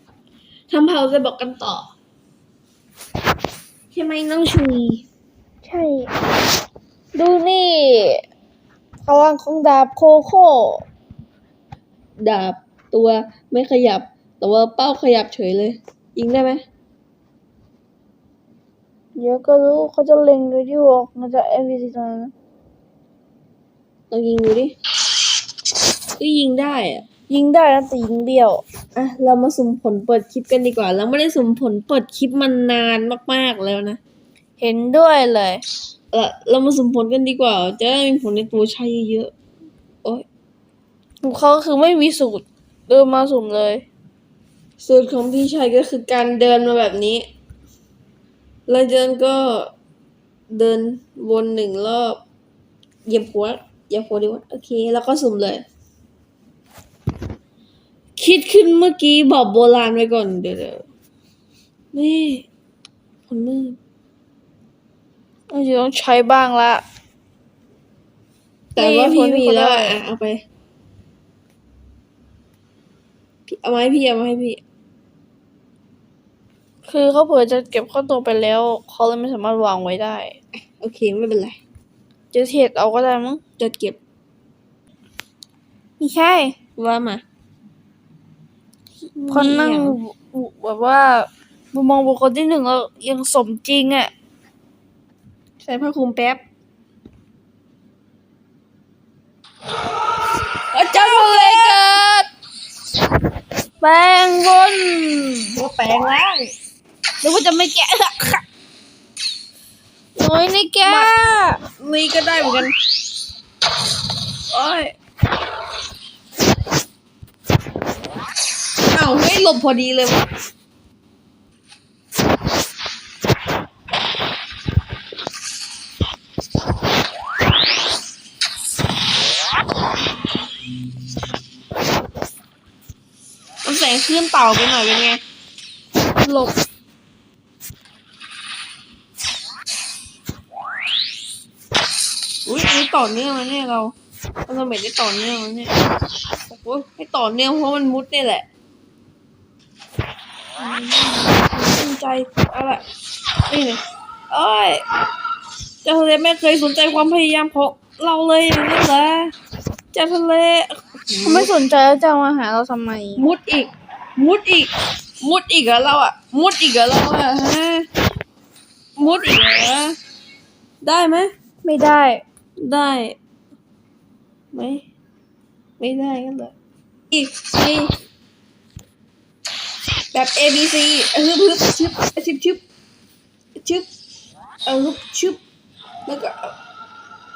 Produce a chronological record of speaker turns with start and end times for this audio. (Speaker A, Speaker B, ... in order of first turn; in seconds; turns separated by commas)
Speaker A: 0.7-1.9, Speaker A: 3.9-5.0, Speaker B: 5.6-6.1, Speaker B: 7.1-8.2, Speaker B: 9.1-10.8, Speaker A: 12.2-16.6, Speaker B: 19.1-22.3, Speaker A: 24.1-24.7, Speaker A: 26.2-27.0, Speaker B: 27.3-28.6, Speaker A: 28.9-34.0, Speaker B: 34.6-35.6, Speaker A: 36.1-39.3, Speaker B: 41.2-43.8, Speaker A: 44.8-47.3, Speaker A: 48.7-49.7, Speaker A: 50.5-52.2, Speaker A: 53.1-55.6, Speaker A: 58.2-60.9, Speaker A: 61.9-62.5, Speaker A: 63.3-63.8, Speaker B: 65.5-66.8, Speaker B: 68.8-70.0, Speaker A: 68.8-70.4, Speaker A: 73.5-74.6, Speaker B: 76.9-80.4, Speaker A: 80.8-81.6, Speaker B: 82.3-83.4, Speaker A: 83.6-84.0, Speaker B: 86.0-86.5, Speaker A: 86.8-87.2, Speaker A: 89.2-90.0, Speaker B: 89.3-94.1, Speaker A: 95.6-96.4, Speaker A: 100.7-102.0, Speaker B: 100.9-102.3, Speaker B: 103.8-105.5, Speaker A: 105.5-106.5, Speaker B: 107.2-108.4, Speaker B: 110.2-111.6, Speaker A: 110.8-111.1, Speaker A: 111.8-112.7, Speaker B: 114.5-114.9, Speaker A: 118.9-120.3, Speaker A: 133.6-135.2, Speaker B: 136.2-136.5, Speaker A: 142.4-143.9, Speaker A: 144.5-145.7, Speaker A: 146.5-148.4, Speaker A: 150.6-152.8, Speaker A: 153.5-154.8, Speaker A: 155.8-159.3, Speaker A: 159.9-161.5, Speaker B: 161.2-163.2, Speaker A: 163.2-167.9, Speaker A: 169.0-170.0, Speaker A: 170.8-171.3, Speaker B: 171.6-172.2, Speaker A: 172.6-173.2, Speaker A: 174.5-174.8, Speaker A: 175.8-176.5, Speaker A: 177.1-177.9, Speaker A: 180.1-182.6, Speaker A: 183.6-183.8, Speaker A: 184.7-185.4, Speaker A: 186.1-186.5